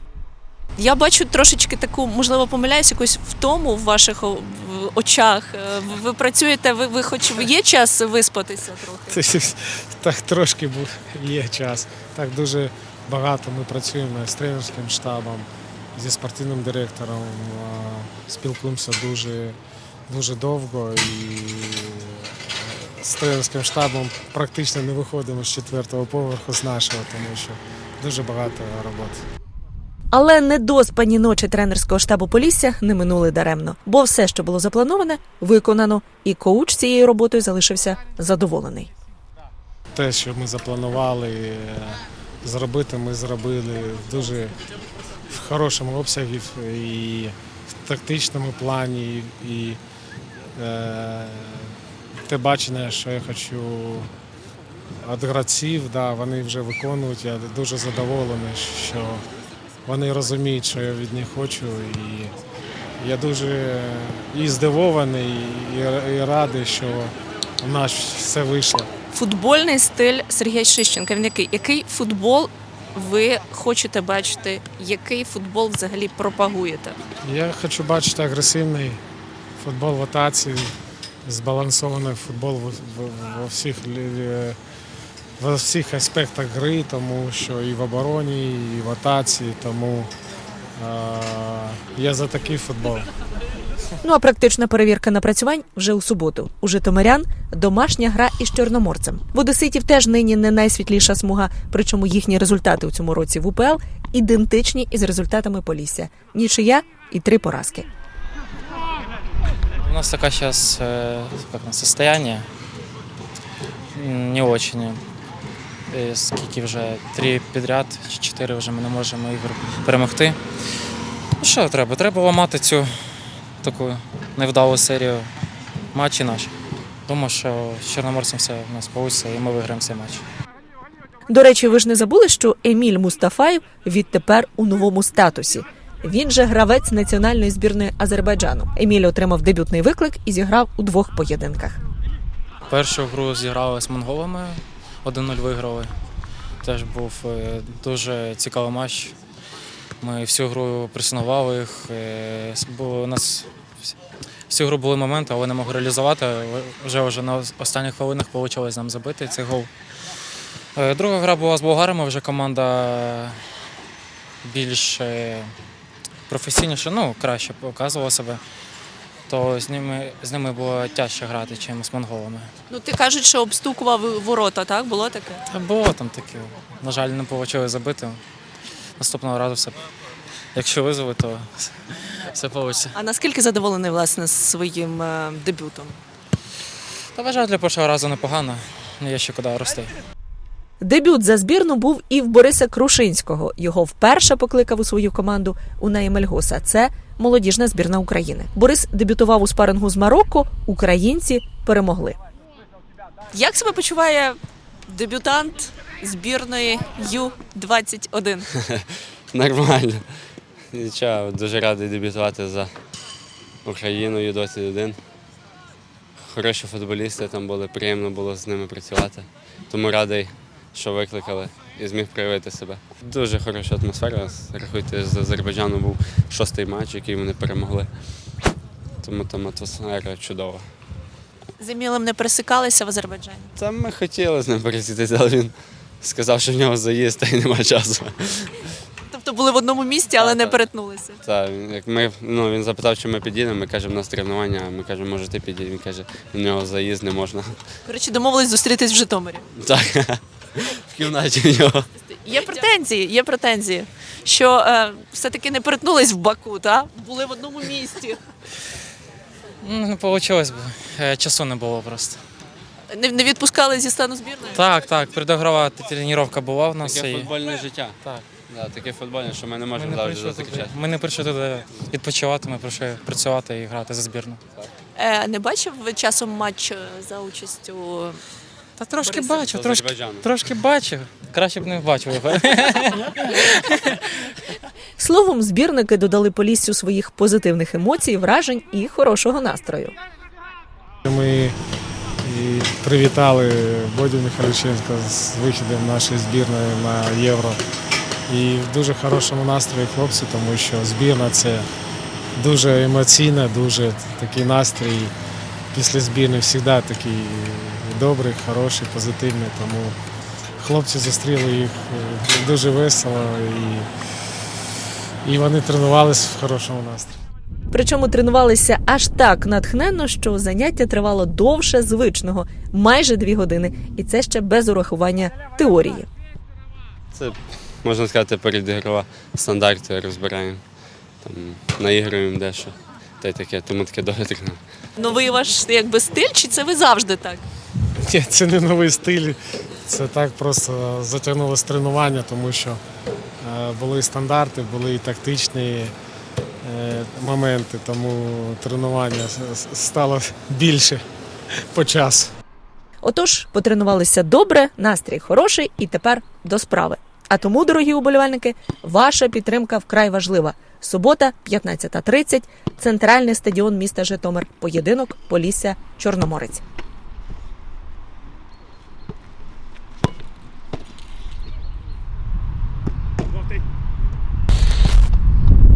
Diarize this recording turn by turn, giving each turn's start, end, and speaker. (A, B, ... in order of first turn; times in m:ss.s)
0:00.8-0:09.2 A
0:09.1-0:19.6 B
0:20.1-0:29.2 B
0:30.1-0:38.9 C
0:39.9-0:44.6 B
0:45.3-0:49.8 B
0:50.6-0:54.1 B
0:55.0-0:59.2 B
0:59.8-1:02.3 B
1:03.0-1:08.9 B
1:09.1-1:17.0 A
1:17.2-1:19.0 B
1:19.6-1:24.6 B
1:25.4-1:30.1 B
1:30.8-1:33.1 B
1:34.0-1:47.9 C
1:49.8-1:52.5 D
1:53.9-1:55.0 D
1:55.9-2:00.4 D
2:01.4-2:02.9 D
2:03.6-2:05.3 D
2:05.9-2:06.5 D
2:07.1-2:10.2 D
2:11.3-2:21.8 C
2:22.7-2:25.9 D
2:26.6-2:29.1 D
2:30.0-2:33.9 D
2:34.5-2:39.7 D
2:40.8-2:43.4 D
2:44.4-2:45.5 D
2:46.3-2:48.4 D
2:49.3-2:52.5 D
2:52.7-2:55.4 A
2:55.5-2:58.2 D
2:59.0-2:59.8 D
3:00.5-3:03.0 D
3:03.0-3:06.0 A
3:07.1-3:09.9 D
3:10.8-3:22.2 C
3:23.3-3:28.5 A
3:28.6-3:30.0 E
3:30.7-3:32.7 E
3:33.6-3:35.0 E
3:36.3-3:47.9 E
3:49.0-3:50.7 E
3:51.6-3:53.5 A
3:53.6-3:58.7 E
3:59.1-4:01.2 A
4:00.1-4:00.7 E
4:01.2-4:07.6 E
4:07.8-4:09.4 A
4:09.5-4:11.9 E
4:12.1-4:18.2 A
4:19.6-4:22.2 D
4:22.9-4:24.6 A
4:24.5-4:27.3 D
4:26.8-4:28.0 E
4:28.5-4:30.8 E
4:29.7-4:34.4 D
4:34.9-4:38.2 A
4:38.8-4:44.2 D
4:39.0-4:39.3 A
4:39.3-4:40.3 E
4:45.0-4:49.9 C
4:51.0-4:51.5 B
4:52.2-4:57.6 B
4:58.3-5:01.7 B
5:02.3-5:05.1 B
5:05.7-5:10.0 B
5:10.6-5:13.9 B
5:15.2-5:17.2 B
5:17.7-5:26.1 C
5:27.1-5:30.6 E
5:31.2-5:34.6 E
5:35.0-5:37.4 A
5:38.0-5:42.8 B
5:43.4-5:45.9 B
5:46.6-5:51.0 B
5:51.7-5:52.3 B
5:53.0-6:06.6 C